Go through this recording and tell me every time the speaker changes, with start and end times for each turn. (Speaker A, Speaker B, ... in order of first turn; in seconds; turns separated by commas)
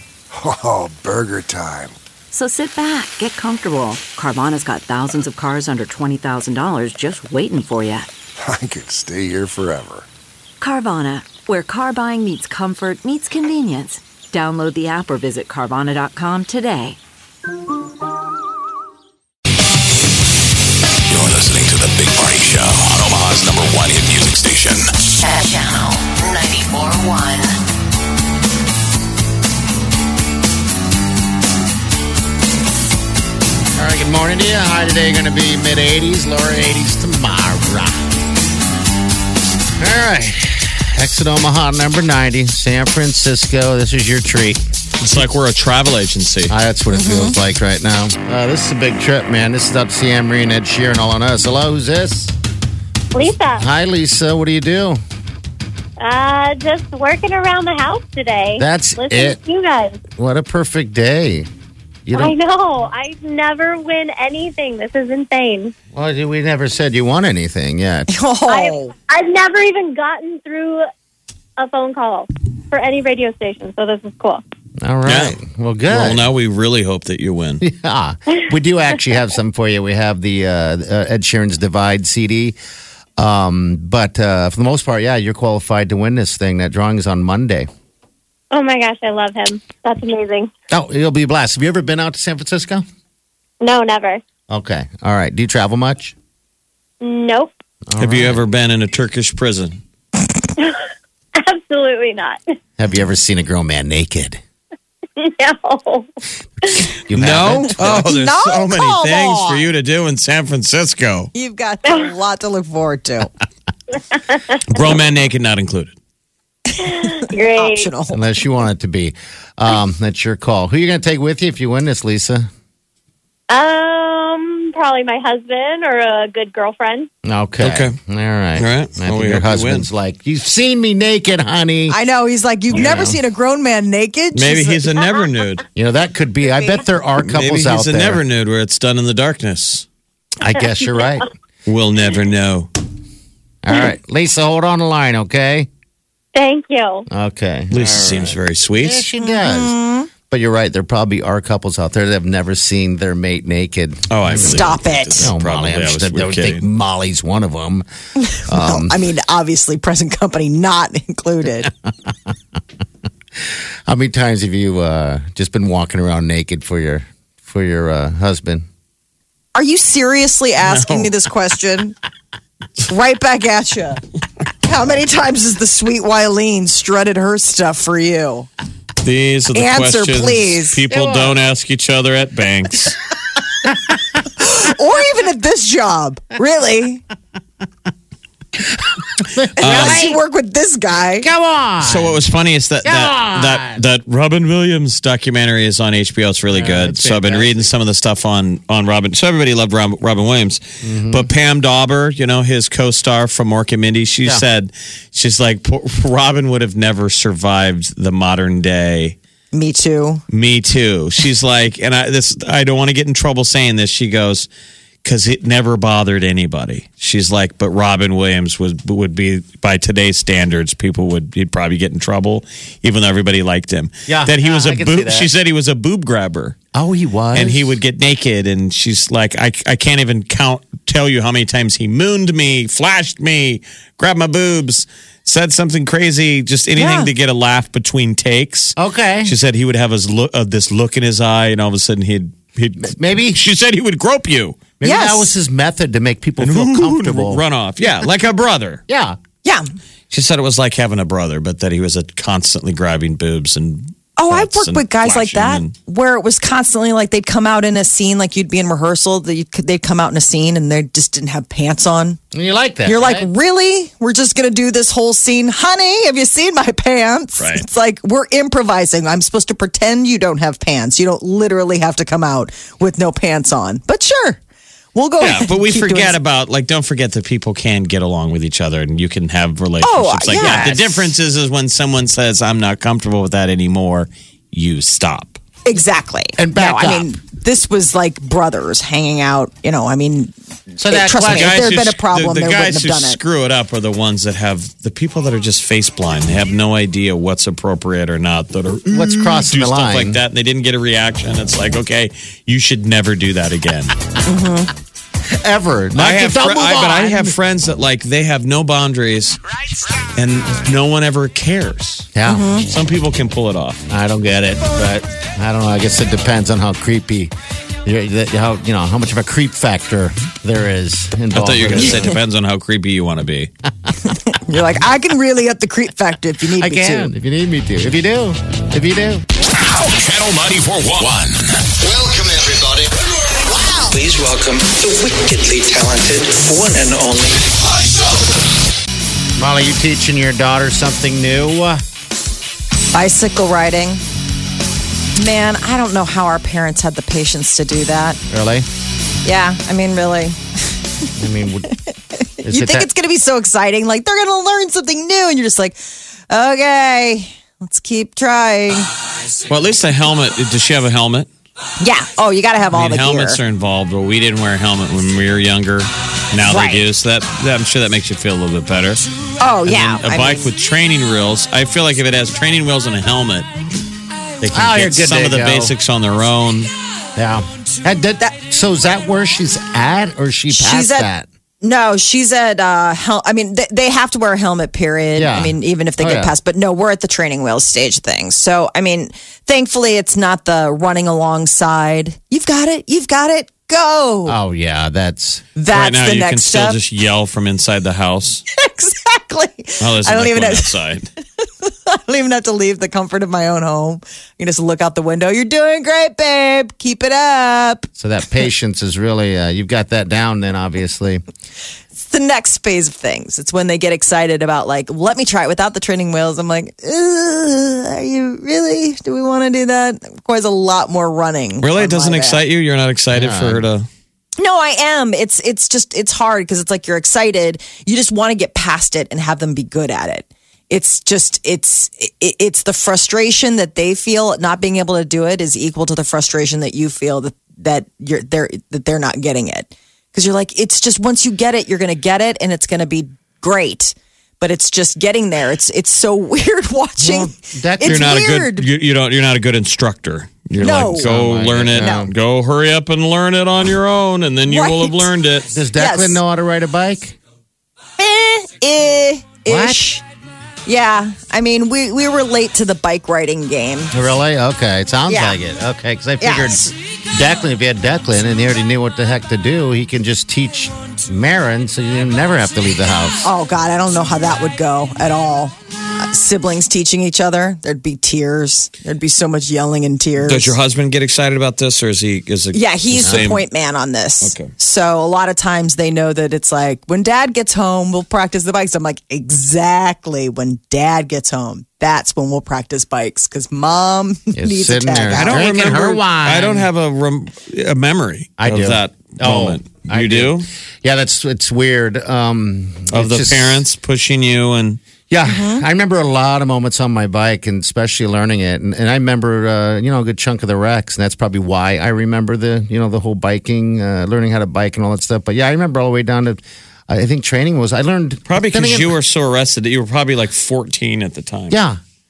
Speaker A: 0.3-2.0, Speaker B: 2.3-8.1, Speaker A: 8.4-10.1, Speaker B: 10.6-17.0, Speaker C: 21.1-24.9, Speaker D: 25.2-27.5, Speaker E: 33.8-38.0, Speaker E: 39.8-45.2, Speaker F: 45.0-46.5, Speaker E: 46.5-52.3, Speaker G: 46.9-47.4, Speaker H: 53.1-53.6, Speaker E: 53.2-55.0, Speaker H: 56.0-60.0, Speaker E: 58.6-59.4, Speaker E: 60.2-61.5, Speaker E: 62.0-62.4, Speaker H: 62.1-65.7, Speaker E: 65.9-68.1, Speaker G: 68.1-68.9, Speaker H: 68.5-70.8, Speaker H: 71.6-74.4, Speaker E: 74.8-76.3, Speaker F: 75.0-77.6, Speaker E: 77.6-82.5, Speaker E: 83.2-87.7, Speaker H: 88.5-90.5, Speaker E: 90.7-92.8, Speaker H: 93.6-94.2, Speaker E: 94.5-96.1, Speaker H: 97.0-97.5, Speaker E: 97.9-98.4, Speaker F: 98.0-99.8, Speaker H: 101.4-102.4, Speaker E: 102.8-104.4, Speaker H: 105.2-106.1, Speaker E: 106.8-108.1, Speaker F: 107.1-111.3, Speaker G: 107.8-109.7, Speaker G: 111.3-113.3, Speaker H: 114.1-114.4, Speaker F: 114.7-115.9, Speaker G: 116.8-118.2, Speaker H: 116.8-117.9, Speaker E: 118.1-122.5, Speaker H: 123.5-127.1, Speaker E: 127.2-132.0, Speaker F: 127.6-128.0, Speaker F: 128.6-129.9, Speaker G: 131.9-134.8, Speaker E: 132.7-133.2, Speaker F: 132.7-133.1, Speaker F: 134.3-135.7, Speaker E: 135.7-138.2, Speaker F: 137.2-139.9, Speaker E: 140.4-141.3, Speaker H: 140.6-141.1, Speaker F: 141.7-142.7, Speaker E: 143.6-145.7, Speaker H: 146.3-147.1, Speaker E: 147.1-149.8, Speaker F: 147.7-149.1, Speaker G: 149.2-150.1, Speaker E: 150.3-157.9, Speaker F: 154.1-156.6, Speaker G: 154.5-155.3, Speaker G: 158.2-161.7, Speaker E: 158.4-158.9, Speaker E: 163.9-168.7, Speaker G: 169.5-171.9, Speaker F: 170.6-171.2, Speaker G: 172.9-174.0, Speaker G: 174.6-178.5, Speaker F: 179.0-183.0, Speaker G: 179.5-180.8, Speaker E: 180.9-181.4, Speaker G: 184.4-187.0, Speaker E: 189.2-190.2, Speaker G: 189.6-191.3, Speaker F: 189.6-190.1, Speaker E: 191.2-192.2, Speaker F: 191.8-209.2, Speaker E: 192.8-193.8, Speaker E: 196.5-197.7, Speaker E: 200.8-201.3, Speaker G: 209.5-210.2, Speaker F: 210.3-214.5, Speaker F: 215.0-226.6, Speaker E: 224.1-225.3, Speaker E: 226.7-227.8, Speaker F: 227.3-244.7, Speaker G: 236.8-237.1, Speaker E: 238.8-239.3, Speaker E: 242.8-243.4, Speaker E: 244.8-247.4, Speaker G: 244.8-245.3, Speaker F: 246.4-248.8, Speaker E: 248.9-249.2, Speaker F: 250.1-255.7, Speaker G: 254.2-262.2, Speaker E: 262.3-263.3, Speaker G: 262.8-274.4, Speaker F: 267.4-267.6, Speaker G: 274.9-276.2, Speaker F: 275.2-285.4, Speaker G: 279.8-280.7, Speaker E: 280.3-281.1, Speaker G: 285.7-293.2, Speaker E: 286.4-287.1, Speaker E: 290.8-291.6, Speaker F: 291.3-304.0, Speaker E: 298.9-300.2, Speaker G: 304.2-304.7, Speaker E: 305.3-307.3, Speaker F: 305.9-309.4, Speaker F: 310.1-312.1, Speaker E: 312.1-312.5, Speaker G: 312.2-312.7, Speaker F: 312.6-313.8, Speaker E: 313.9-317.3, Speaker E: 317.9-322.2, Speaker F: 321.3-323.5, Speaker G: 324.1-327.1, Speaker E: 326.6-329.2, Speaker C: 329.7-331.4, Speaker I: 333.8-337.6, Speaker E: 339.4-341.8, Speaker G: 342.9-344.0, Speaker G: 345.1-348.2, Speaker E: 348.3-348.6, Speaker G: 349.2-350.9, Speaker E: 351.2-351.7, Speaker G: 351.7-355.8, Speaker E: 352.4-352.9, Speaker G: 356.3-358.9, Speaker F: 359.5-361.3, Speaker G: 361.8-363.4, Speaker F: 362.7-369.0, Speaker G: 366.4-366.9, Speaker G: 369.4-370.5, Speaker F: 369.6-373.5, Speaker F: 374.4-376.7, Speaker E: 374.5-375.7, Speaker E: 377.1-381.2, Speaker G: 380.5-381.1, Speaker G: 381.6-394.4, Speaker E: 385.1-386.3, Speaker E: 394.2-395.4, Speaker G: 395.5-396.8, Speaker F: 395.7-398.4, Speaker G: 398.6-400.8, Speaker F: 399.8-401.1, Speaker G: 401.4-407.9, Speaker E: 408.0-411.2, Speaker G: 411.9-422.4, Speaker F: 421.6-423.9, Speaker E: 423.1-423.6, Speaker G: 424.4-448.7, Speaker E: 447.0-448.0, Speaker F: 447.8-455.5, Speaker G: 450.6-451.1, Speaker E: 450.6-452.1, Speaker G: 451.8-452.1, Speaker G: 454.4-455.1, Speaker E: 455.5-457.2, Speaker G: 455.8-456.2, Speaker G: 458.0-460.0, Speaker E: 459.5-459.8, Speaker G: 460.6-463.9, Speaker E: 463.9-473.3, Speaker G: 465.1-465.4, Speaker G: 466.2-466.7, Speaker G: 473.2-480.6, Speaker F: 480.2-483.5, Speaker G: 482.5-495.4, Speaker E: 483.0-483.3, Speaker F: 484.2-484.5, Speaker E: 494.3-496.7, Speaker F: 495.1-500.5, Speaker E: 498.4-503.6, Speaker F: 502.9-504.8, Speaker E: 505.1-519.0, Speaker G: 505.2-505.6, Speaker F: 518.2-521.6, Speaker E: 521.5-521.8